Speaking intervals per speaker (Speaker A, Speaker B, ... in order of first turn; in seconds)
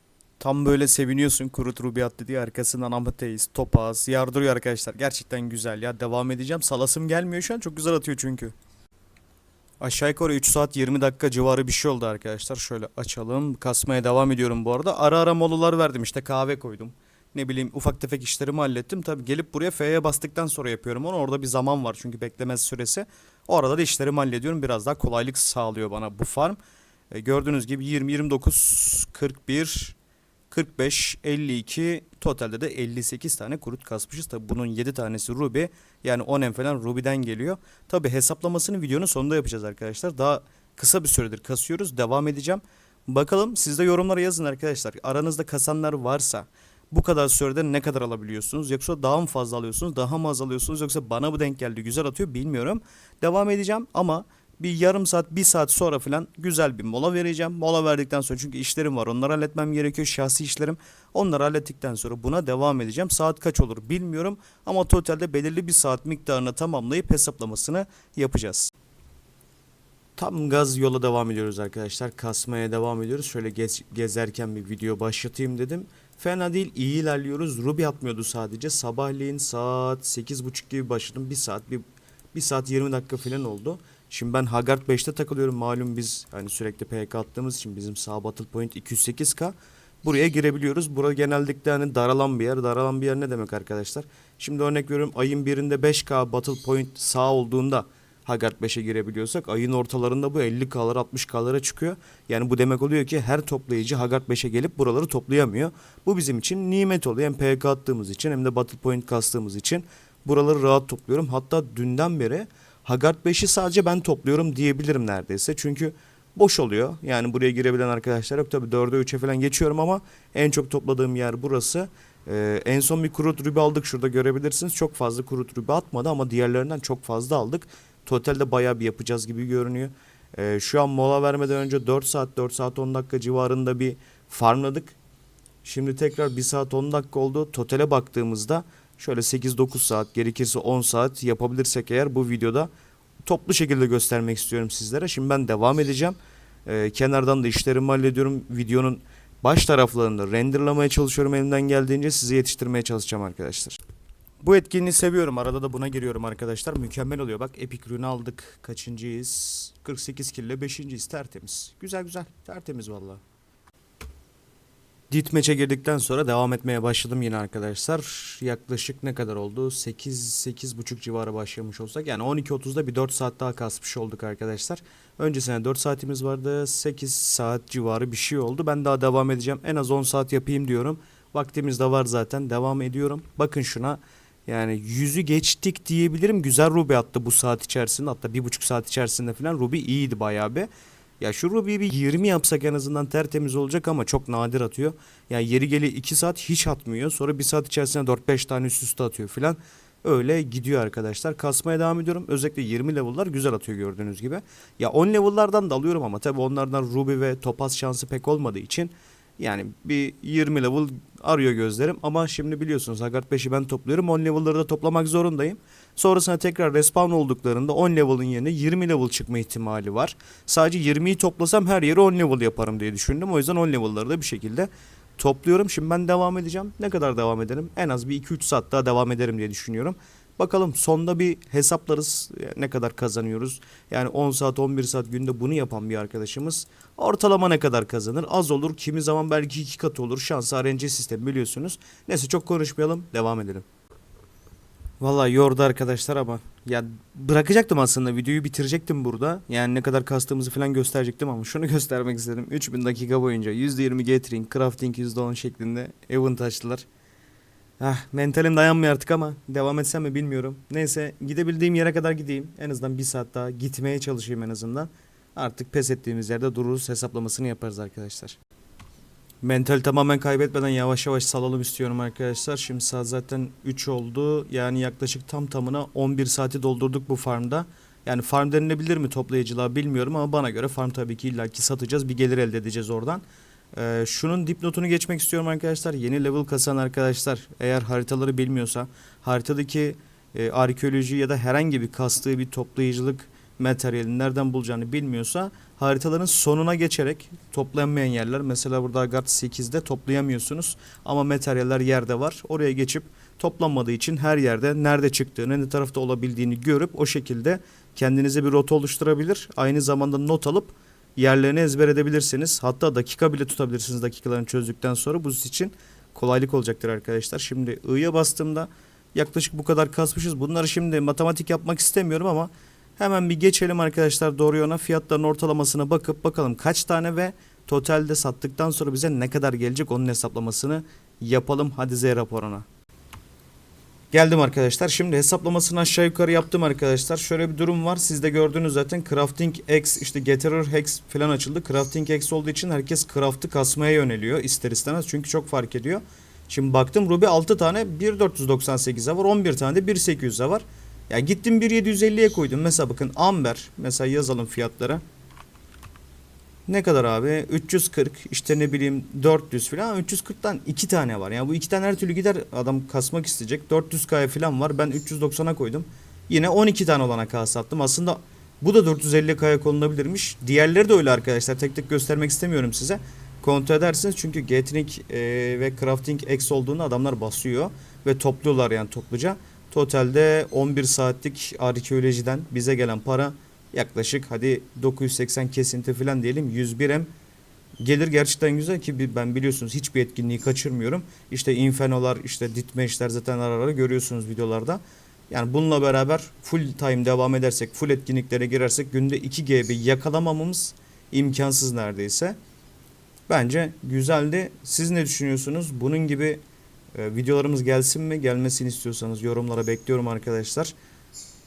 Speaker A: 0.4-8.6, 9.8-26.6, 27.1-30.0, 30.5-68.7, 70.2-135.0, 135.6-142.7, 143.3-153.8, 154.4-163.2, 165.1-190.7, 191.2-243.7, 245.0-256.9, 257.8-268.4, 269.4-283.2, 283.7-332.7, 334.1-355.0, 356.7-387.1, 387.8-402.4, 403.3-406.4, 406.9-410.7